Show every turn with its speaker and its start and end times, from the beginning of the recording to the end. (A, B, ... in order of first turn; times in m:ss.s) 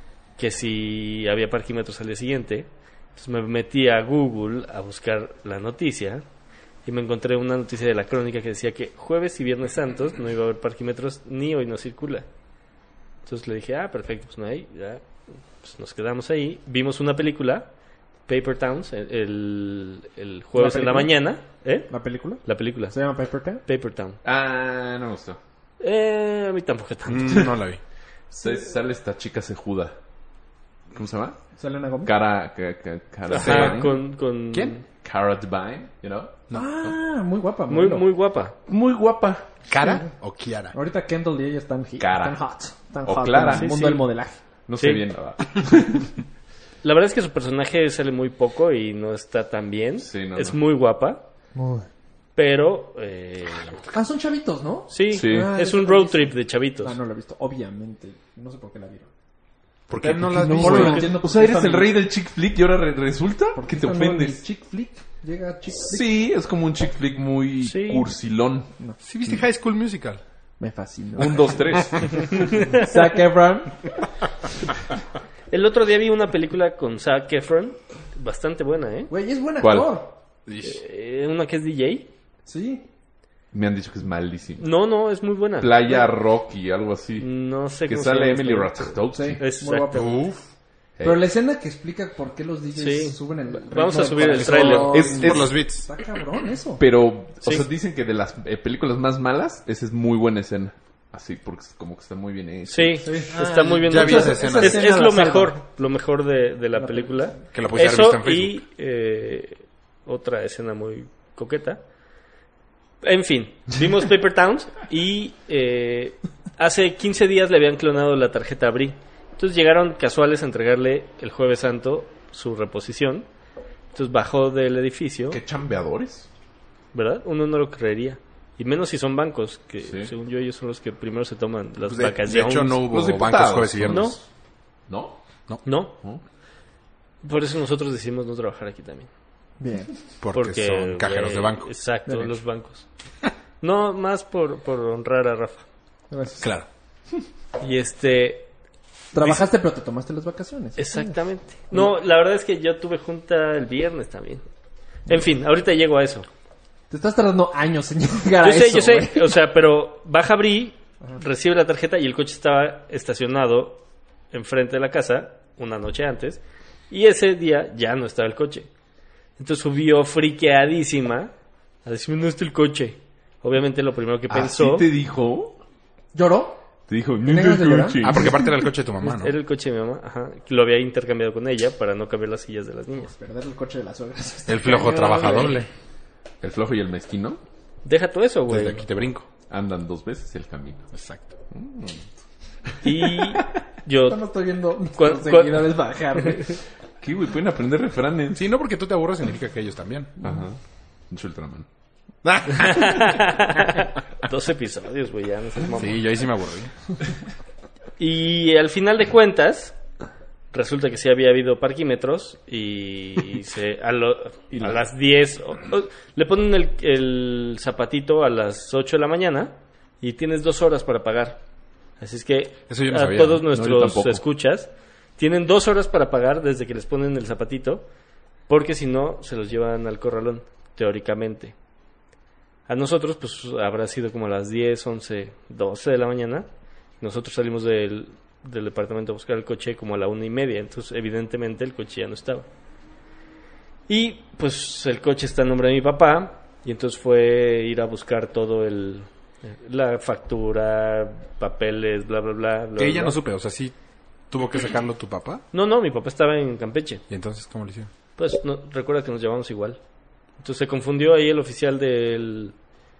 0:00.4-0:06.2 A
0:06.8-0:12.2 A
0:13.2-0:15.0 A
0:15.6-0:17.7 A
0:18.3-0:21.9 A
0:20.6-0:21.1 B
0:21.9-0:23.6 B
0:22.4-0:23.0 A
0:23.7-0:24.2 A
0:24.2-0:25.4 C
0:25.8-0:27.5 A
0:27.1-0:27.8 D
0:28.3-0:29.9 C
0:30.9-0:31.4 C
0:31.6-0:32.1 B
0:32.0-0:34.0 C
0:33.3-0:34.8 A
0:33.3-0:33.9 D
0:35.0-0:36.4 C
0:36.5-0:36.7 D
0:36.5-0:38.1 B
0:37.7-0:38.6 A
0:38.7-0:39.5 C
0:39.7-0:40.7 D
0:39.7-0:40.1 B
0:40.7-0:44.4 B
0:42.0-0:42.4 C
0:43.0-0:44.1 C
0:43.5-0:43.9 A
0:44.7-0:46.1 C
0:44.8-0:45.0 A
0:46.8-0:51.2 A
0:50.0-0:50.6 C
0:51.6-0:51.9 B
0:52.4-0:53.8 A
0:53.9-0:59.1 B
0:54.9-0:57.0 A
0:55.1-0:55.5 C
0:59.9-1:01.1 D
1:00.0-1:02.0 B
1:00.2-1:04.4 C
1:00.6-1:01.0 A
1:03.6-1:06.2 B
1:05.7-1:08.7 C
1:07.6-1:08.1 A
1:09.0-1:10.2 D
1:10.6-1:12.0 B
1:11.2-1:12.5 C
1:12.6-1:13.8 B
1:15.5-1:19.1 A
1:19.1-1:20.2 B
1:19.6-1:19.9 C
1:20.5-1:20.8 D
1:20.6-1:22.1 A
1:22.5-1:22.8 B
1:23.5-1:24.7 C
1:24.6-1:26.0 A
1:25.6-1:27.3 C
1:27.2-1:30.2 A
1:27.8-1:29.4 C
1:29.1-1:30.1 B
1:29.9-1:30.4 D
1:31.0-1:31.2 C
1:31.0-1:36.8 B
1:32.8-1:35.0 A
1:34.2-1:35.9 D
1:34.9-1:35.6 C
1:36.8-1:43.1 C
1:37.4-1:37.7 A
1:42.7-1:51.8 A
1:43.0-1:45.6 B
1:43.3-1:44.9 D
1:46.8-1:47.4 B
1:47.5-1:48.6 D
1:53.0-2:03.3 A
2:03.9-2:05.4 A
2:05.3-2:06.3 C
2:06.9-2:12.8 A
2:09.8-2:10.1 C
2:11.9-2:14.2 D
2:12.9-2:14.2 C
2:13.9-2:14.2 A
2:14.9-2:15.2 C
2:15.6-2:16.0 A
2:17.2-2:19.1 A
2:19.6-2:19.9 B
2:20.2-2:21.7 D
2:20.3-2:22.9 A
2:22.1-2:22.3 B
2:23.6-2:25.7 A
2:26.1-2:26.5 B
2:26.4-2:26.7 D
2:27.6-2:28.5 A
2:29.1-2:31.2 B
2:29.2-2:29.5 A
2:30.8-2:34.4 A
2:35.1-2:36.3 A
2:36.9-2:39.4 B
2:38.4-2:48.7 A
2:49.4-2:51.3 A
2:51.8-2:54.8 A
2:54.3-2:55.6 C
2:56.1-2:56.6 B
2:56.9-2:58.4 C
2:57.2-2:58.4 B
2:58.0-2:59.3 D
2:59.0-3:03.1 A
3:03.1-3:05.5 B
3:04.5-3:05.7 D
3:04.7-3:05.6 A
3:06.4-3:07.4 C
3:07.8-3:08.8 A
3:08.5-3:09.3 D
3:09.5-3:10.8 C
3:10.9-3:11.2 D
3:11.5-3:12.0 C
3:12.8-3:14.2 A
3:14.1-3:16.6 B
3:15.0-3:16.6 A
3:17.0-3:18.4 C
3:18.3-3:20.1 D
3:20.2-3:20.6 C
3:21.1-3:21.7 C
3:22.2-3:23.3 D
3:22.5-3:26.0 A
3:25.7-3:26.7 D
3:28.0-3:29.8 A
3:30.5-3:41.4 A
3:42.0-3:47.8 A
3:42.7-3:43.4 D
3:43.5-3:44.2 C
3:48.5-3:51.6 A
3:52.7-3:56.5 A
3:57.0-4:02.5 A
4:03.9-4:13.2 A
4:12.8-4:13.7 D
4:14.3-4:15.4 D
4:15.5-4:17.0 A
4:17.1-4:17.9 D
4:18.2-4:19.8 A
4:20.4-4:22.6 A